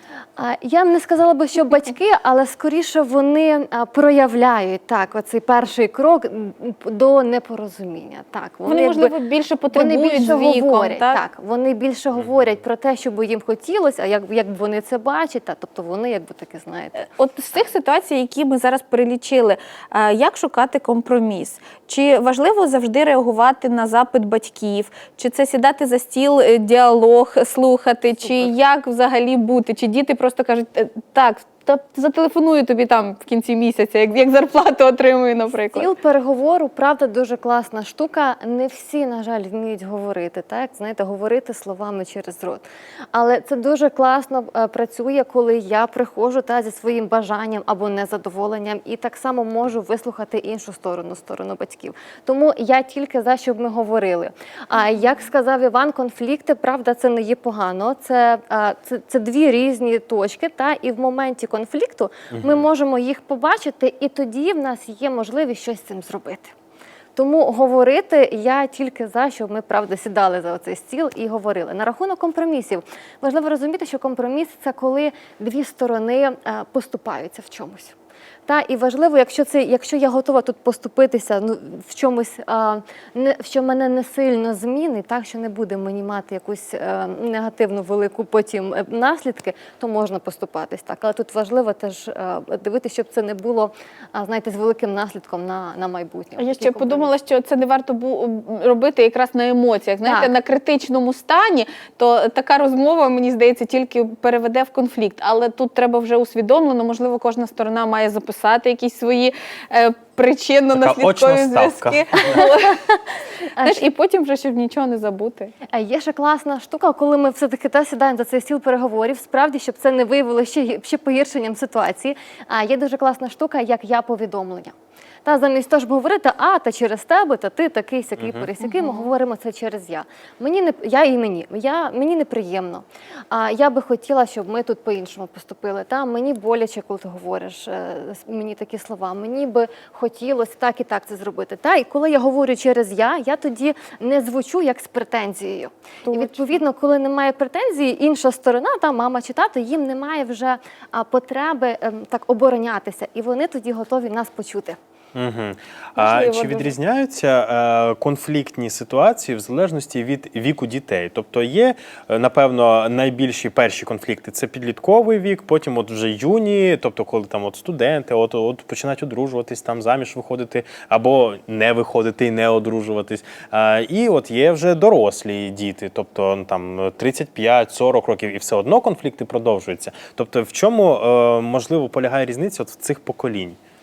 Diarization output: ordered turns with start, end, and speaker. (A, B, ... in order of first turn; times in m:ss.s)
0:00.4-0:09.1 A
0:08.7-0:11.2 B
0:09.7-0:17.0 A
0:17.0-0:35.9 B
0:35.7-1:06.5 A
1:02.3-1:02.7 C
1:07.2-1:18.0 A
1:18.5-1:37.1 A
1:36.4-1:53.0 B
1:40.0-1:40.3 A
1:50.7-1:52.4 C
1:52.2-1:52.9 A
1:53.5-1:53.8 A
1:53.6-1:55.5 B
1:55.7-2:04.7 A
2:05.2-2:34.8 A
2:08.2-2:08.5 C
2:08.6-2:09.1 B
2:26.0-2:26.6 B
2:35.1-3:03.6 C
2:36.0-2:36.7 B